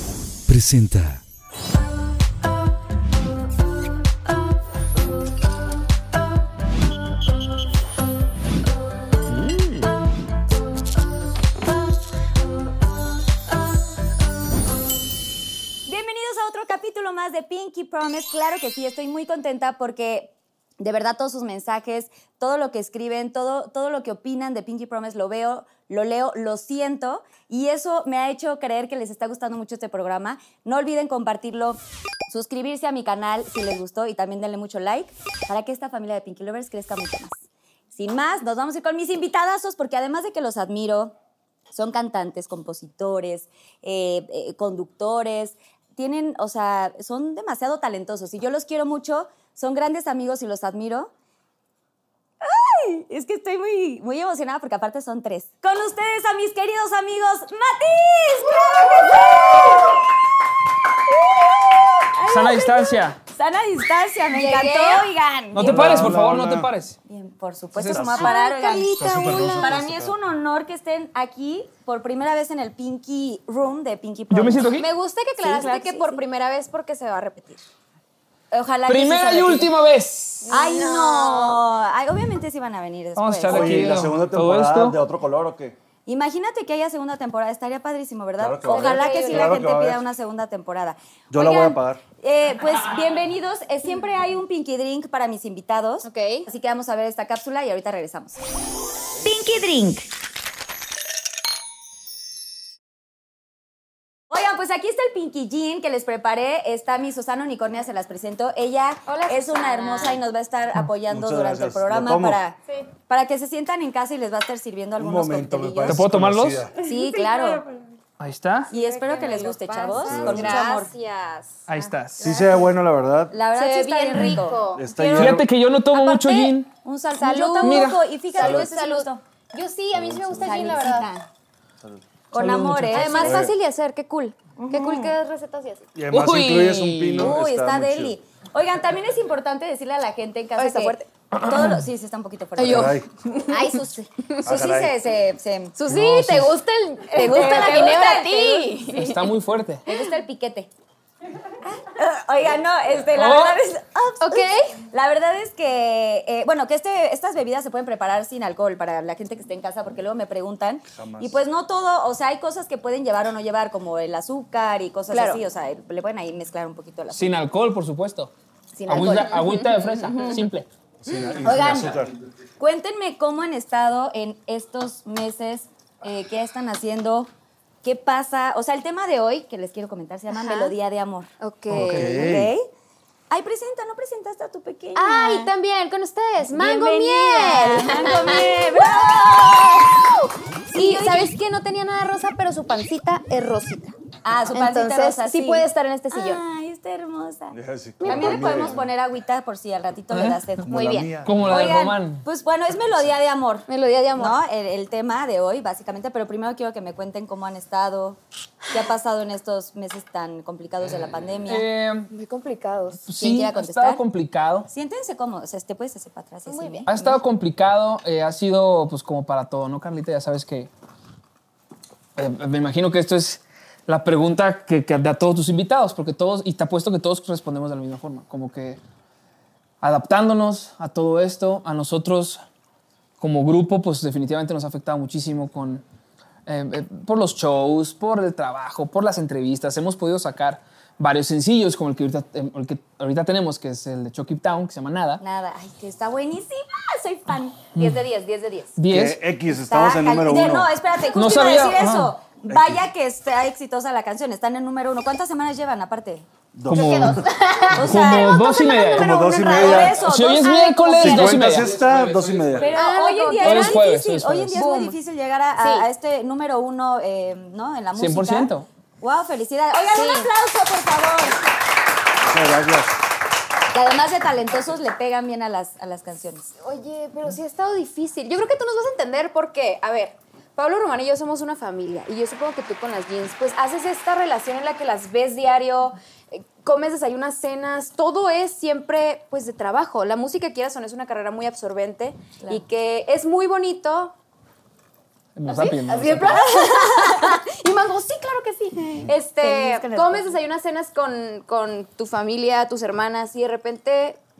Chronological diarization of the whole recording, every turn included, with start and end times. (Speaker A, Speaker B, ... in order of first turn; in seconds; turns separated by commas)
Speaker A: 0.5-1.2, Speaker B: 15.8-41.1, Speaker B: 41.7-51.1, Speaker B: 52.4-60.0, Speaker B: 61.0-66.2, Speaker C: 62.3-63.2, Speaker D: 64.3-65.1, Speaker C: 65.5-67.0, Speaker E: 65.6-66.7, Speaker B: 67.0-74.7, Speaker C: 67.8-68.1, Speaker E: 67.8-68.3, Speaker D: 68.1-69.7, Speaker E: 68.9-70.1, Speaker C: 74.3-74.9, Speaker D: 74.8-77.6, Speaker B: 75.4-76.2, Speaker B: 78.5-79.7, Speaker C: 78.9-80.5, Speaker D: 80.4-81.6, Speaker B: 80.5-84.0, Speaker C: 83.2-85.0, Speaker E: 83.5-85.8, Speaker B: 86.0-98.4, Speaker E: 88.4-90.0, Speaker D: 88.6-89.6, Speaker E: 91.3-92.0, Speaker D: 96.0-96.5, Speaker B: 99.2-100.1, Speaker B: 104.3-116.0, Speaker D: 109.1-110.2, Speaker E: 111.1-112.4, Speaker E: 115.0-116.7, Speaker C: 115.8-116.7, Speaker D: 116.8-117.8, Speaker B: 116.8-117.6, Speaker C: 118.2-118.7, Speaker D: 118.7-122.6, Speaker B: 118.7-120.9, Speaker E: 119.9-120.7, Speaker C: 121.7-122.2, Speaker E: 122.2-123.4, Speaker B: 123.3-129.2, Speaker D: 123.5-124.9, Speaker E: 124.7-125.5, Speaker C: 125.1-126.7, Speaker D: 127.2-131.1, Speaker C: 127.6-128.0, Speaker E: 128.4-128.7, Speaker E: 129.9-130.9, Speaker B: 130.4-131.2, Speaker B: 132.3-133.5, Speaker C: 132.3-133.2, Speaker D: 132.9-135.9, Speaker E: 133.2-133.5, Speaker B: 134.6-135.2, Speaker E: 135.9-138.2, Speaker C: 136.1-137.3, Speaker B: 137.2-145.8, Speaker D: 140.6-141.1, Speaker C: 141.3-141.8, Speaker D: 142.6-144.4, Speaker E: 142.6-143.1, Speaker E: 144.4-144.9, Speaker D: 145.8-149.3, Speaker C: 145.9-146.5, Speaker B: 147.1-148.8, Speaker C: 148.9-149.8, Speaker B: 149.8-150.7, Speaker B: 151.6-167.4, Speaker C: 153.1-153.6, Speaker D: 154.2-154.8, Speaker E: 160.9-161.4, Speaker D: 165.1-165.4, Speaker C: 167.1-168.3, Speaker B: 168.8-170.4, Speaker D: 168.8-170.3, Speaker C: 168.9-170.7, Speaker E: 171.0-172.2, Speaker B: 171.4-172.0, Speaker B: 172.6-177.3, Speaker B: 177.8-182.7, Speaker D: 180.3-180.8, Speaker D: 181.4-182.3, Speaker E: 181.7-182.5, Speaker B: 183.3-185.5, Speaker D: 184.9-189.0, Speaker B: 186.4-191.3, Speaker D: 190.7-193.9, Speaker B: 194.2-200.7, Speaker D: 194.5-196.4, Speaker E: 197.5-198.9, Speaker D: 198.0-198.7, Speaker C: 200.1-200.4, Speaker E: 200.6-201.8, Speaker D: 200.7-201.1, Speaker C: 201.2-202.2, Speaker B: 201.4-211.7, Speaker D: 203.7-204.4, Speaker C: 211.5-212.1, Speaker D: 212.1-213.1, Speaker C: 213.0-214.7, Speaker B: 213.1-214.0, Speaker B: 214.7-217.2, Speaker D: 216.5-216.9, Speaker C: 216.9-220.7, Speaker C: 222.2-228.8, Speaker C: 229.8-232.4, Speaker C: 233.2-235.8, Speaker C: 236.4-245.2, Speaker B: 245.2-247.6, Speaker C: 247.8-248.0, Speaker D: 247.8-248.8, Speaker C: 248.8-249.2, Speaker E: 248.9-250.7, Speaker B: 249.7-256.3, Speaker C: 251.1-252.2, Speaker E: 252.5-252.8, Speaker E: 256.6-257.2, Speaker D: 256.7-260.1, Speaker C: 256.7-257.2, Speaker B: 257.7-261.6, Speaker C: 257.8-259.1, Speaker E: 258.9-260.0, Speaker C: 260.0-261.8, Speaker E: 261.0-262.7, Speaker A: 261.5-262.8, Speaker B: 262.6-271.4, Speaker D: 262.7-263.8, Speaker C: 263.4-264.6, Speaker D: 264.5-265.0, Speaker D: 265.6-265.9, Speaker C: 267.9-268.7, Speaker D: 269.9-270.3, Speaker E: 272.2-273.0, Speaker B: 273.7-276.5, Speaker D: 276.6-294.1, Speaker C: 295.4-296.4, Speaker D: 295.5-304.2, Speaker B: 296.2-297.4, Speaker B: 298.9-300.3